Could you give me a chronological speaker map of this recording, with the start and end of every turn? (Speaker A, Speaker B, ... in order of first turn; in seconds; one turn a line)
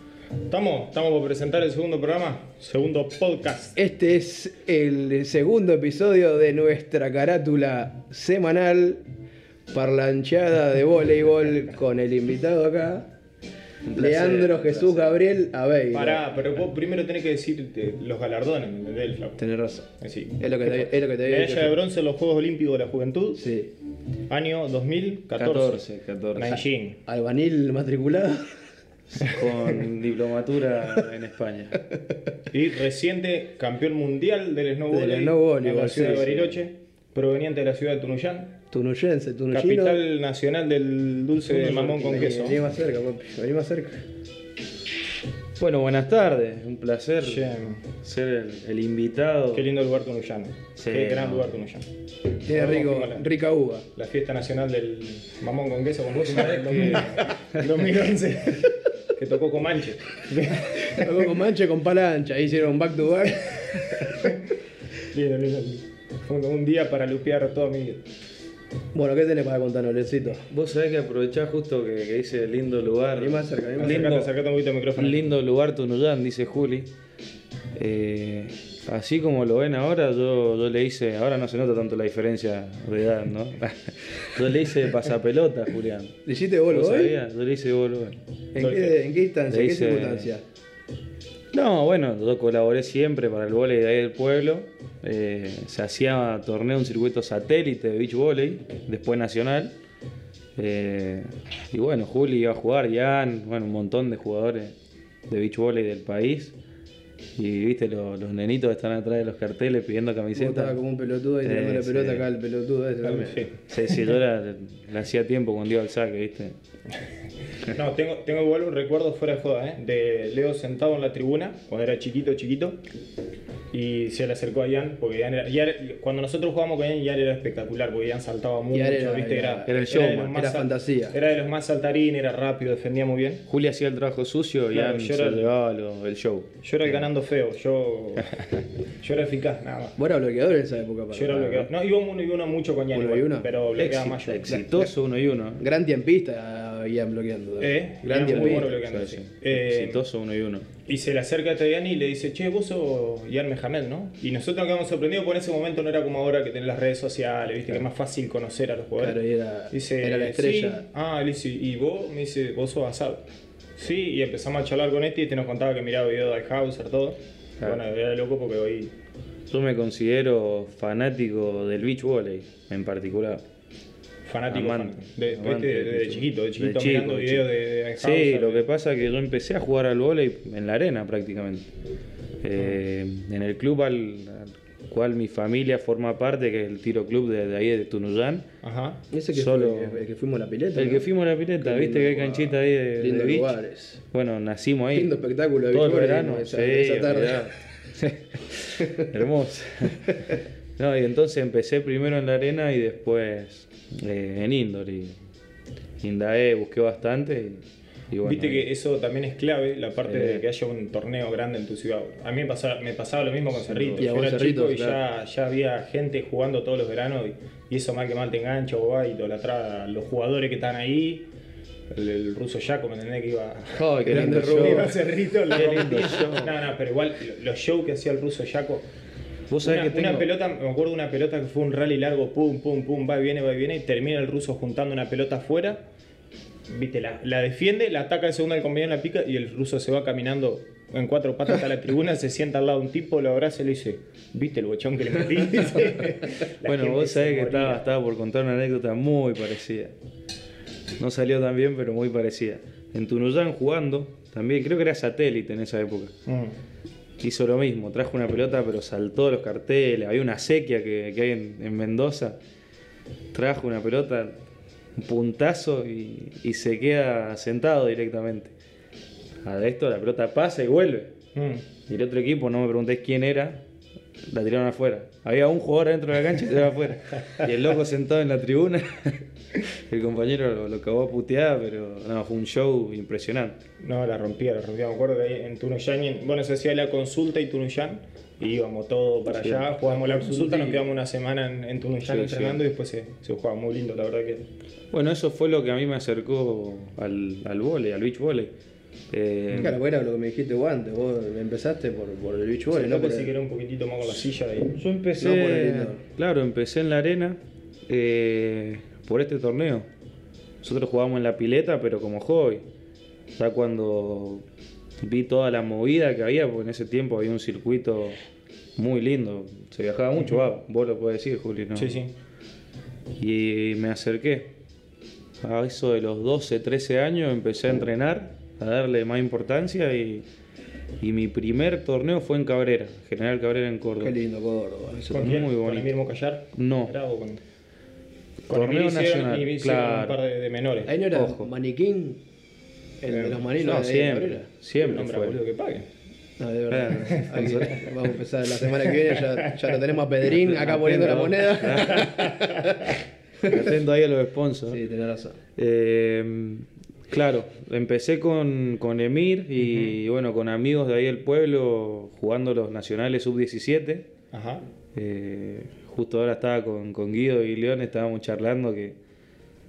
Speaker A: 0.5-3.8
Speaker B: 3.8-9.0
Speaker B: 9.7-13.1
Speaker C: 13.8-15.2
Speaker B: 13.9-16.3
Speaker A: 15.9-19.4
Speaker B: 19.4-19.9
Speaker A: 20.0-23.4
Speaker B: 20.4-21.8
Speaker B: 23.4-23.7
Speaker A: 24.3-25.8
Speaker C: 25.4-26.6
Speaker A: 26.3-27.0
Speaker B: 27.1-28.6
Speaker C: 29.1-31.8
Speaker A: 32.5-38.6
Speaker B: 34.9-36.6
Speaker B: 38.7-40.0
Speaker A: 39.5-42.6
Speaker B: 41.5-44.1
Speaker C: 45.6-49.7
Speaker A: 47.2-47.8
Speaker A: 49.5-51.9
Speaker C: 50.8-51.6
Speaker A: 52.4-53.3
Speaker B: 52.5-53.9
Speaker A: 54.0-61.3
Speaker C: 56.1-57.6
Speaker B: 56.5-57.0
Speaker B: 60.7-64.1
Speaker A: 63.5-64.4
Speaker A: 65.1-68.0
Speaker B: 68.9-70.4
Speaker C: 70.5-74.3
Speaker B: 73.2-74.2
Speaker A: 73.8-75.3
Speaker C: 75.0-76.9
Speaker C: 77.8-88.2
Speaker B: 86.3-87.2
Speaker B: 88.5-90.4
Speaker A: 88.6-89.0
Speaker C: 89.5-90.3
Speaker C: 91.5-99.8
Speaker C: 100.6-104.7
Speaker C: 105.3-106.5
Speaker C: 107.4-110.8
Speaker B: 110.3-113.5
Speaker C: 111.4-112.3
Speaker A: 113.0-114.2
Speaker C: 113.7-116.6
Speaker A: 117.7-122.8
Speaker A: 123.7-133.5
Speaker B: 128.7-131.2
Speaker C: 129.7-130.4
Speaker C: 133.5-137.1
Speaker A: 134.7-135.5
Speaker A: 136.6-140.0
Speaker B: 140.0-141.7
Speaker A: 141.1-144.6
Speaker B: 142.9-143.5
Speaker C: 143.8-145.6
Speaker B: 144.5-144.9
Speaker B: 145.6-149.0
Speaker A: 147.6-150.0
Speaker C: 148.3-150.7
Speaker A: 150.9-159.2
Speaker B: 159.0-160.8
Speaker A: 159.7-168.9
Speaker C: 169.5-173.4
Speaker A: 174.2-178.7
Speaker C: 174.5-177.5
Speaker C: 178.0-181.7
Speaker C: 182.4-188.5
Speaker A: 188.6-189.0
Speaker B: 189.1-191.1
Speaker C: 189.3-190.0
Speaker C: 190.8-193.6
Speaker B: 191.6-194.0
Speaker C: 194.1-195.2
Speaker B: 194.9-197.5
Speaker C: 195.7-205.2
Speaker C: 206.0-208.7
Speaker A: 208.2-221.3
Speaker C: 210.1-210.4
Speaker C: 213.5-214.1
Speaker B: 214.0-215.0
Speaker A: 221.9-228.9
Speaker C: 223.7-225.0
Speaker B: 224.1-225.0
Speaker C: 225.5-226.6
Speaker C: 229.5-230.3
Speaker A: 229.6-235.8
Speaker A: 236.7-247.8
Speaker C: 246.6-249.9
Speaker C: 251.0-256.2
Speaker A: 256.3-256.6
Speaker C: 257.2-262.4
Speaker C: 263.3-264.4
Speaker C: 265.0-268.5
Speaker C: 269.4-271.1
Speaker A: 271.4-271.6
Speaker C: 271.9-273.6
Speaker C: 274.3-283.6
Speaker A: 283.8-294.4
Speaker C: 289.3-289.6
Speaker B: 290.1-290.8
Speaker C: 292.0-292.6
Speaker C: 294.9-298.5
Speaker C: 299.1-299.8
Speaker B: 299.6-303.3
Speaker A: 302.7-304.7
Speaker C: 304.7-309.9
Speaker B: 305.2-306.0
Speaker C: 310.6-312.6
Speaker C: 313.4-314.4
Speaker C: 315.0-318.2
Speaker C: 318.8-321.9
Speaker A: 321.8-322.1
Speaker C: 323.2-324.5
Speaker C: 325.4-330.3
Speaker C: 331.0-334.2
Speaker B: 334.0-335.3
Speaker C: 335.0-335.9
Speaker A: 335.0-337.4
Speaker C: 336.5-336.9
Speaker A: 338.5-340.9
Speaker C: 338.5-340.2
Speaker B: 340.9-342.2
Speaker C: 341.1-341.5
Speaker B: 343.0-344.5
Speaker A: 343.1-343.5
Speaker C: 343.6-345.4
Speaker A: 344.8-345.9
Speaker B: 346.4-353.7
Speaker C: 346.7-348.0
Speaker A: 349.0-349.6
Speaker C: 350.2-352.4
Speaker A: 351.9-352.6
Speaker C: 353.4-354.8
Speaker B: 354.7-355.4
Speaker C: 355.6-364.1
Speaker A: 359.6-360.0
Speaker A: 364.3-364.6
Speaker C: 364.9-369.0